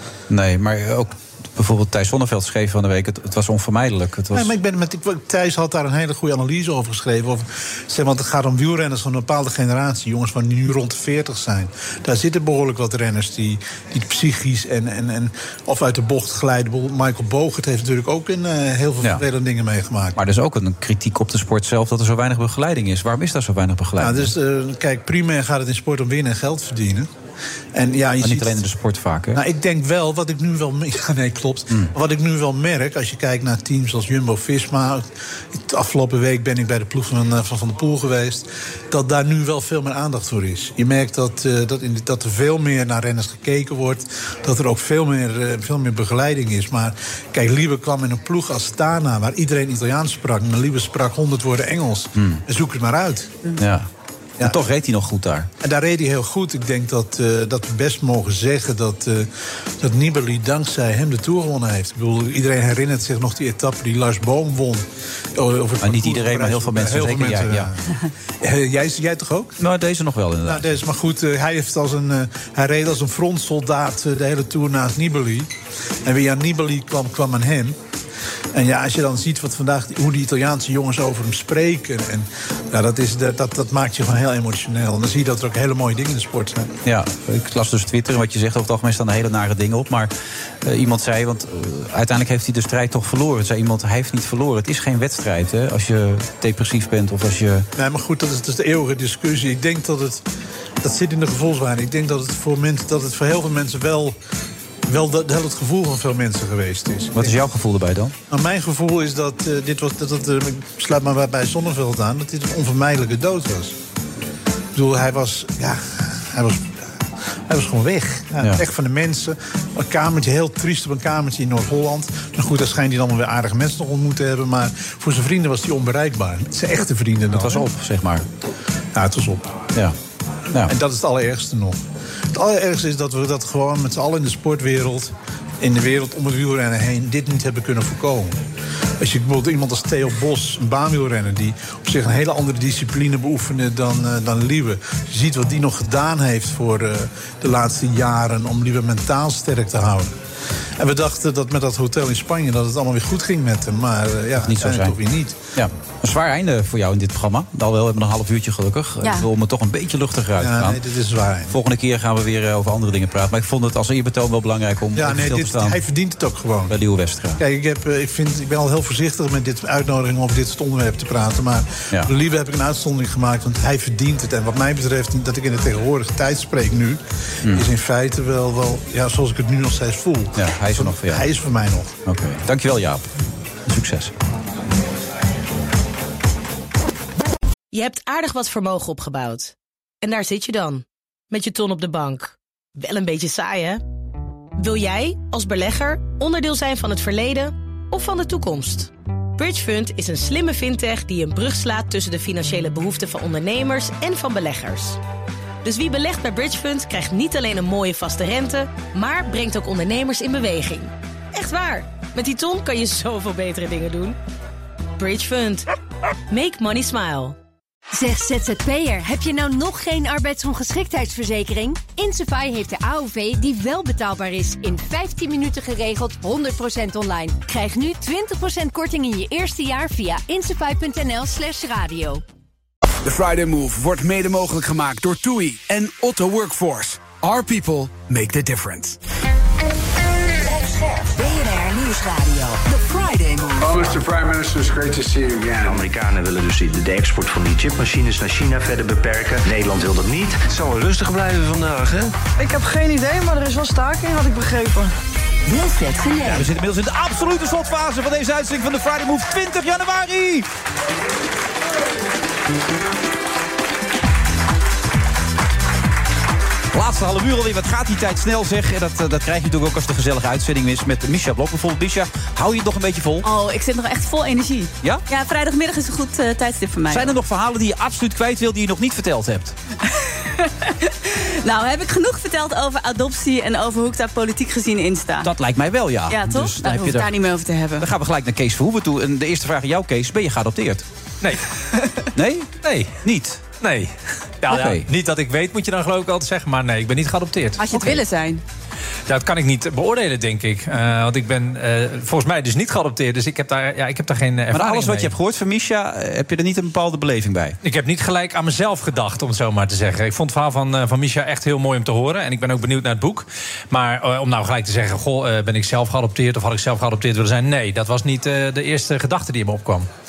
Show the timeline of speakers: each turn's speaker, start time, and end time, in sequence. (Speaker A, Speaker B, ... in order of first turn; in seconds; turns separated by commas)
Speaker A: 0.3-4.5, Speaker B: 4.3-20.2, Speaker A: 20.1-24.3, Speaker B: 24.0-27.1, Speaker B: 27.7-28.6, Speaker A: 28.2-29.4, Speaker B: 29.3-53.3, Speaker A: 52.1-52.4, Speaker A: 53.6-53.9, Speaker A: 54.4-55.5, Speaker B: 55.6-59.3, Speaker B: 59.8-64.8, Speaker B: 65.3-67.8, Speaker A: 65.8-67.7, Speaker B: 68.4-69.5, Speaker A: 69.6-70.7, Speaker B: 70.4-75.5, Speaker B: 76.0-77.8, Speaker B: 78.5-86.7, Speaker A: 86.8-90.1, Speaker A: 90.6-97.7, Speaker B: 97.8-100.2, Speaker B: 100.8-104.2, Speaker B: 104.9-107.4, Speaker A: 107.1-108.1, Speaker B: 108.3-113.7, Speaker B: 114.7-116.7, Speaker B: 117.5-127.6, Speaker A: 127.3-128.2, Speaker B: 128.9-129.6, Speaker B: 130.6-131.8, Speaker B: 132.3-138.4, Speaker B: 139.0-150.1, Speaker B: 150.8-155.4, Speaker A: 154.4-155.0, Speaker A: 155.5-160.8, Speaker B: 160.4-161.5, Speaker A: 161.5-165.8, Speaker B: 164.9-166.7, Speaker A: 166.7-167.4, Speaker B: 167.4-181.9, Speaker A: 177.4-177.7, Speaker A: 180.3-181.3, Speaker A: 182.1-183.0, Speaker A: 183.7-184.1, Speaker C: 187.7-193.8, Speaker C: 194.6-205.0, Speaker C: 205.6-214.2, Speaker C: 215.0-215.7, Speaker C: 216.3-217.3, Speaker D: 217.9-232.2, Speaker E: 233.0-239.0, Speaker F: 240.3-244.0, Speaker G: 243.6-245.9, Speaker H: 245.6-252.1, Speaker I: 252.4-254.9, Speaker F: 255.4-256.5, Speaker A: 256.2-260.5, Speaker A: 266.7-273.3, Speaker J: 273.2-277.1, Speaker A: 276.9-279.5, Speaker J: 279.9-285.3, Speaker A: 285.2-287.1, Speaker J: 286.1-287.9, Speaker A: 287.8-290.8, Speaker A: 292.1-292.5, Speaker K: 292.6-293.0, Speaker A: 293.0-293.4, Speaker K: 293.6-297.6, Speaker A: 294.5-294.9, Speaker J: 297.6-298.4, Speaker K: 299.1-305.1, Speaker A: 304.5-307.6, Speaker K: 307.6-319.9